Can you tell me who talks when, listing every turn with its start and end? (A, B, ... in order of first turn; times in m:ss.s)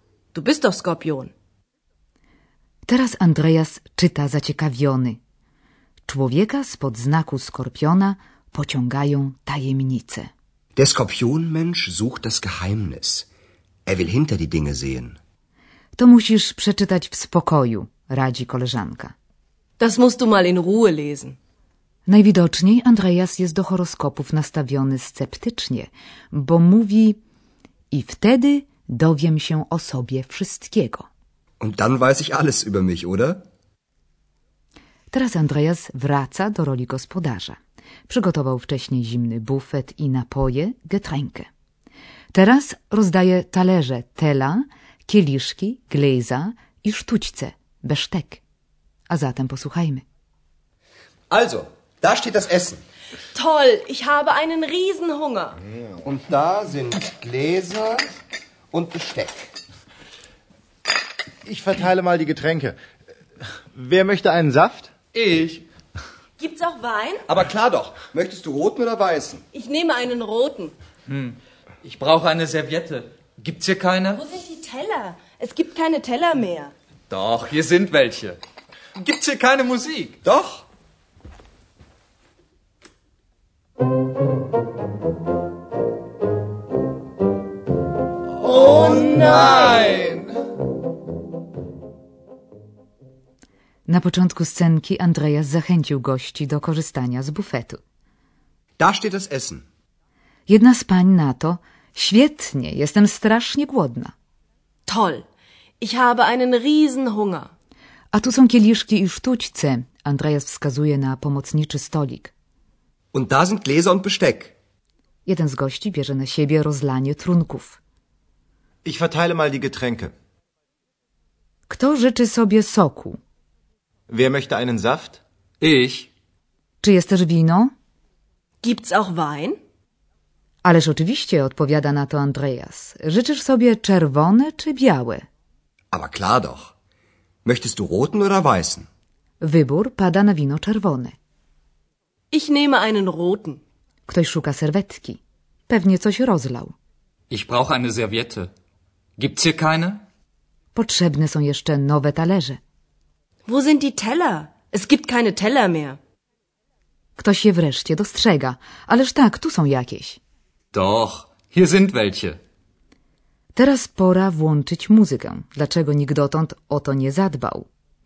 0:00.3-0:01.3 A
0:02.8-0:05.2 B
0:06.1-0:10.3 B
0:10.8-0:13.3 C
0:13.8-0:15.2 C
0:16.0-0:19.1 B
0:19.8-0:21.4 A
0:22.1-0:27.2 B
0:27.9-0:31.0 B
0:31.6-0:33.4 C
0:35.1-0:37.6 B
0:38.1-0:41.5 B
0:42.3-0:48.4 B
0:49.1-0:50.0 B
0:51.3-0:52.8 C
0:53.3-0:55.6 A
0:56.0-0:58.0 C
0:58.7-0:59.5 C
1:01.4-1:02.8 D
1:03.7-1:04.9 D
1:05.1-1:05.6 E
1:06.4-1:07.2 A
1:07.3-1:09.4 C
1:09.5-1:10.7 A
1:11.1-1:14.2 E
1:14.1-1:16.7 A
1:17.1-1:18.4 E
1:19.0-1:20.2 E
1:20.2-1:20.6 C
1:28.4-1:30.3 E
1:33.9-1:37.8 B
1:38.8-1:39.6 C
1:40.5-1:44.1 B
1:44.8-1:45.2 A
1:45.8-1:47.5 A
1:48.1-1:52.3 B
1:53.1-1:54.5 C
1:55.2-1:57.8 B
1:58.8-2:00.1 D
2:01.7-2:03.2 B
2:04.1-2:05.2 D
2:05.6-2:06.1 E
2:06.8-2:07.7 B
2:08.6-2:09.6 A
2:10.6-2:15.2 B
2:15.9-2:16.7 C
2:17.4-2:18.9 C
2:19.4-2:21.1 B
2:22.3-2:23.6 A
2:24.1-2:26.7 B
2:27.3-2:28.5 E
2:29.2-2:30.0 E
2:30.7-2:32.6 B
2:33.5-2:36.0 A
2:37.2-2:40.2 B
2:40.7-2:42.4 E
2:43.5-2:47.7 B